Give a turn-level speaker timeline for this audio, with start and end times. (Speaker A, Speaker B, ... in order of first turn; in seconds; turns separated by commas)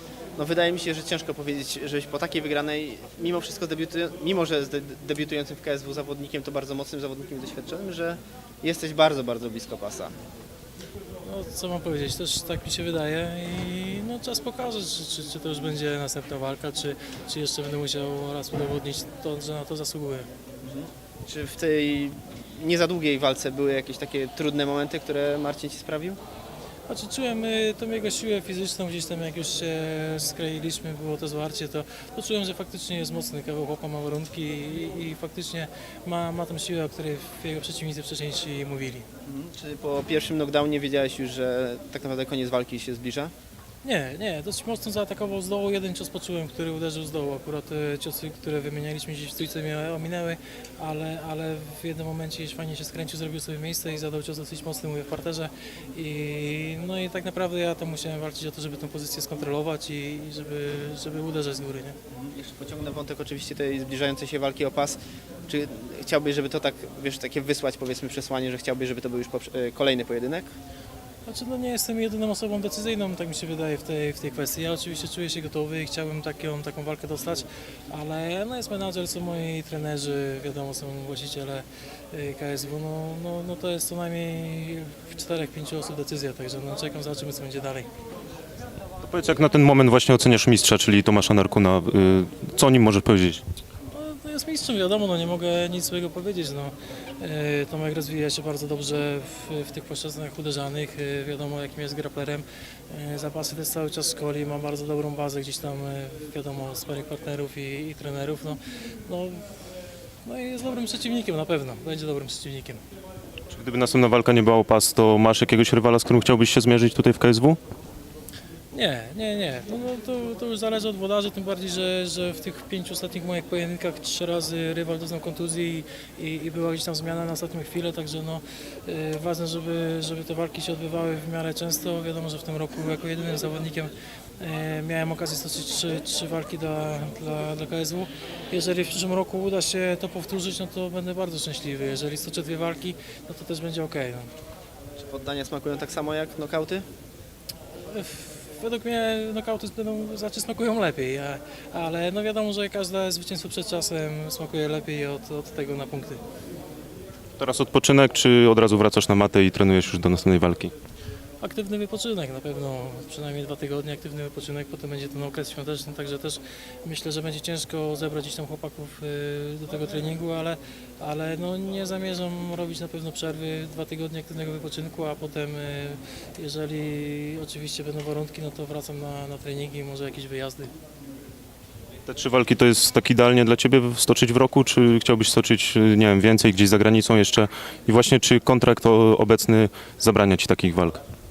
Speaker A: 0.3-10.1, Speaker B: 11.2-20.3, Speaker A: 20.6-26.2, Speaker B: 26.9-39.1, Speaker A: 39.2-43.3, Speaker B: 43.8-62.0, Speaker A: 62.1-70.5, Speaker B: 71.2-87.9, Speaker C: 89.0-93.4, Speaker B: 93.9-109.5, Speaker B: 110.2-112.8, Speaker C: 113.5-117.6, Speaker B: 118.7-144.3, Speaker A: 144.9-146.8, Speaker B: 147.9-156.2, Speaker C: 157.4-160.7, Speaker B: 161.4-180.7, Speaker C: 182.1-191.0